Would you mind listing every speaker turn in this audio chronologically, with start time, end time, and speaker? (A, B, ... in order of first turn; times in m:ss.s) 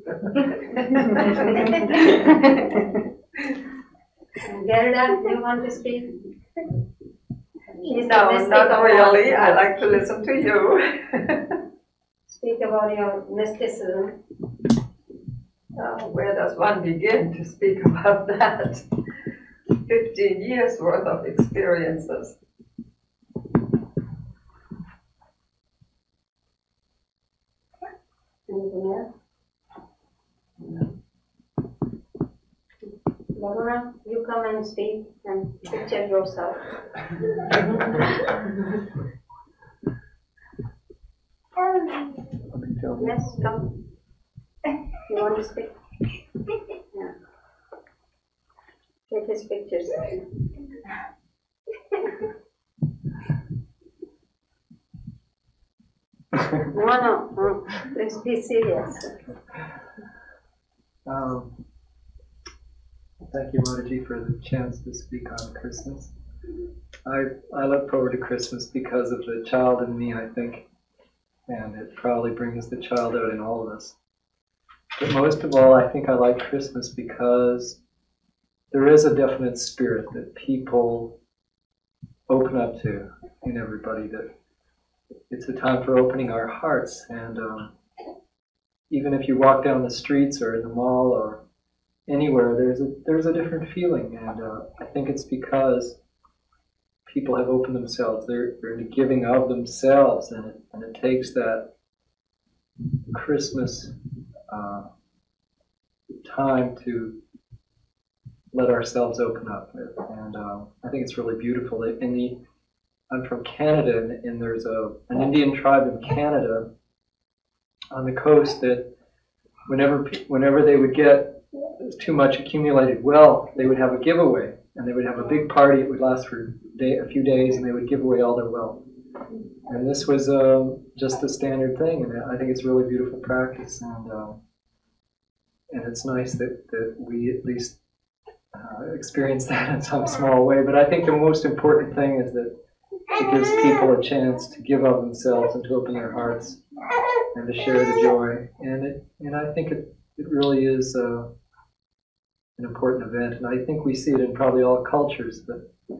0:00.7-0:02.7 A
0:04.4-0:06.1 B
0:07.8-0:09.8 B
0:07.9-0:11.0 A
0:12.3-0:14.2 B
0:15.8-0:18.8 A
0:19.9-0:22.3 A
0:28.5-0:29.1 B
0:33.3-0:36.6 B
0:42.7-0:43.0 C
0:43.0-0:43.7 B
0:45.1-0:45.7 B
0:49.1-0:50.2 B
0:56.7-0:59.2 B
1:01.0-1:01.5 C
1:03.2-1:06.1 C
1:07.0-1:10.6 C
1:11.5-1:13.9 C
1:15.0-1:17.8 C
1:18.7-1:21.2 C
1:22.3-1:24.3 C
1:25.3-1:27.7 C
1:28.9-1:31.4 C
1:32.1-1:36.0 C
1:37.1-1:41.7 C
1:43.1-1:43.9 C
1:44.5-1:44.9 C
1:46.1-1:47.2 C
1:48.5-1:52.4 C
1:53.1-1:56.7 C
1:57.9-1:58.9 C
1:59.7-2:08.8 C
2:09.7-2:14.4 C
2:15.7-2:17.8 C
2:18.5-2:22.5 C
2:23.2-2:26.6 C
2:27.3-2:31.3 C
2:32.6-2:35.7 C